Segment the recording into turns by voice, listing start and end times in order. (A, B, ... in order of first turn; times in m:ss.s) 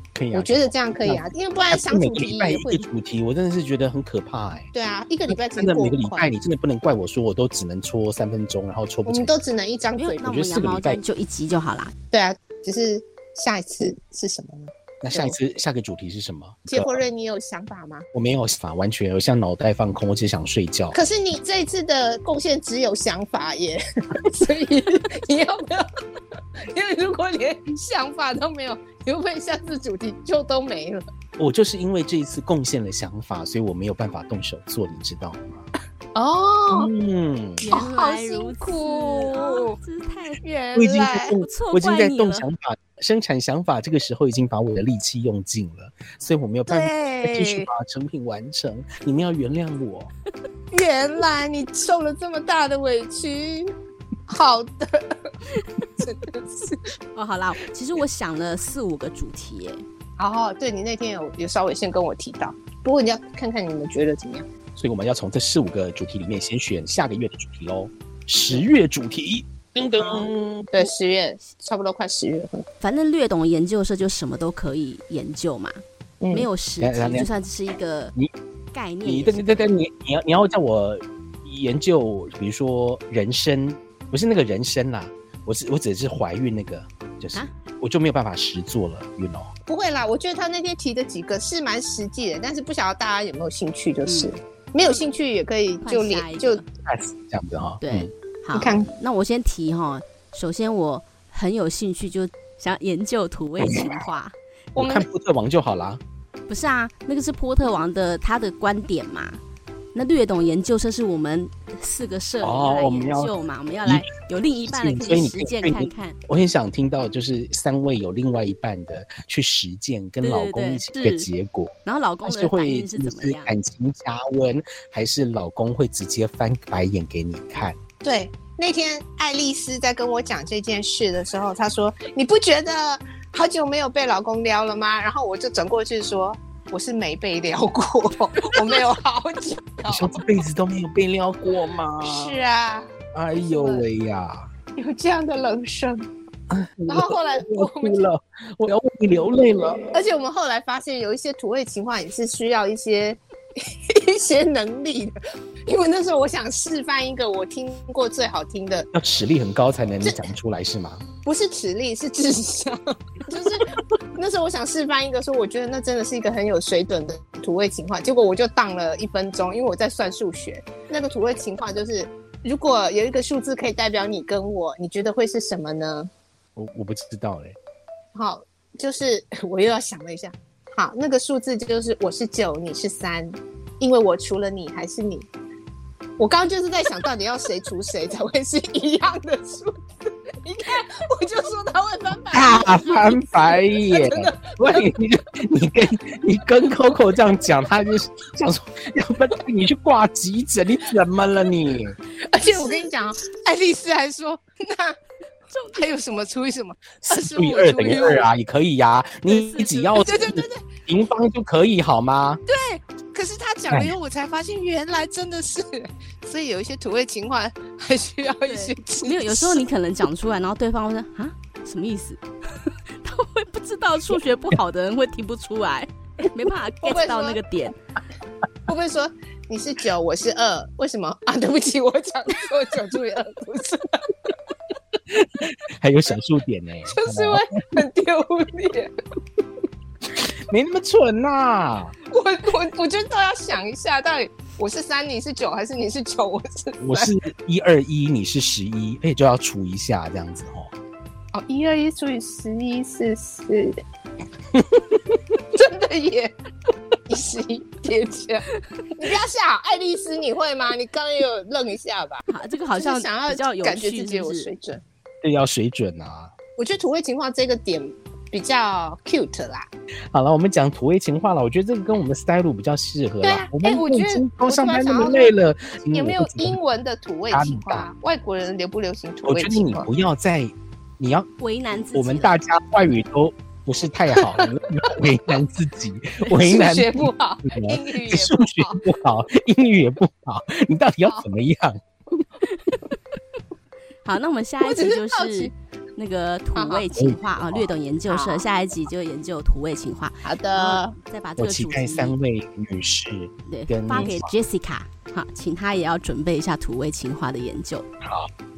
0:00.1-0:04.7 A
0:00.3-0:02.9 B
0:04.7-0:06.3 B
0:05.3-0:09.4 A
0:09.0-0:10.3 B
0:10.0-0:11.9 C
0:10.2-0:11.0 A
0:12.1-0:15.4 B
0:15.0-0:17.0 A
0:16.7-0:18.1 B
0:18.1-0:21.0 A
0:20.9-0:25.9 B
0:26.7-0:31.0 B
0:31.4-0:35.7 A
0:36.1-0:36.9 B
0:36.7-0:37.7 A
0:37.6-0:40.4 C
0:37.6-0:39.7 B
0:40.4-0:41.4 B
0:40.7-0:50.1 A
0:41.4-0:42.4 C
0:46.7-0:47.7 B
0:50.7-0:53.7 B
0:54.3-0:55.2 B
0:56.0-0:56.8 B
0:57.1-0:59.8 C
1:00.2-1:04.4 B
1:04.8-1:10.9 A
1:10.0-1:12.6 B
1:12.8-1:15.8 C
1:16.2-1:16.5 B
1:16.3-1:18.1 C
1:16.8-1:17.3 A
1:18.7-1:19.7 C
1:19.0-1:29.5 A
1:29.7-1:36.6 B
1:34.0-1:34.4 C
1:35.8-1:36.6 C
1:36.8-1:38.1 A
1:37.8-1:44.3 C
1:38.5-1:38.9 B
1:43.6-1:43.9 A
1:44.8-1:45.1 B
1:44.8-1:46.0 A
1:46.5-1:49.4 C
1:49.9-1:56.2 C
1:52.4-1:53.3 A
1:54.6-2:07.8 A
2:00.2-2:01.3 C
2:01.8-2:03.6 C
2:08.0-2:20.2 B
2:19.9-2:22.4 A
2:22.0-2:23.8 B
2:23.1-2:24.5 A
2:24.8-2:26.1 B
2:26.5-2:29.9 A
2:26.9-2:28.0 B
2:29.9-2:33.2 B
2:33.9-2:35.1 B
2:35.6-2:38.9 B
2:38.9-2:41.0 A
2:40.0-2:40.3 B
2:41.2-2:56.1 B
2:56.6-2:57.6 A
2:58.1-3:05.3 B
3:06.2-3:09.8 B
3:10.4-3:14.9 B
3:12.3-3:22.0 A
3:22.3-3:25.0 B
3:25.5-3:25.9 C
3:25.7-3:28.3 B
3:27.1-3:32.4 A
3:29.3-3:30.0 C
3:29.9-3:30.6 B
3:32.5-3:39.6 B
3:38.4-3:47.7 C
3:46.8-3:47.4 B
3:48.7-3:54.3 B
3:55.1-3:57.4 A
3:56.8-3:58.9 B
4:00.3-4:01.9 A
4:02.1-4:07.1 B
4:06.8-4:10.7 A
4:11.3-4:13.8 B
4:15.5-4:16.3 B
4:17.1-4:24.8 B
4:22.3-4:24.5 C
4:25.2-4:26.3 A
4:26.6-4:29.7 B
4:30.1-4:36.6 A
4:33.2-4:35.3 B
4:35.9-4:39.9 B
4:37.3-4:37.9 A
4:39.2-4:41.3 A
4:41.4-4:42.4 C
4:41.9-4:51.8 A
4:44.1-4:45.3 B
4:46.3-4:48.9 B
4:51.0-4:51.3 B
4:54.0-5:02.2 C
4:54.6-4:55.5 B
4:56.5-4:56.9 B
4:57.0-4:57.7 A
4:58.1-4:58.5 B
5:00.2-5:01.0 B
5:01.4-5:04.3 A
5:03.4-5:07.8 C
5:08.0-5:08.3 A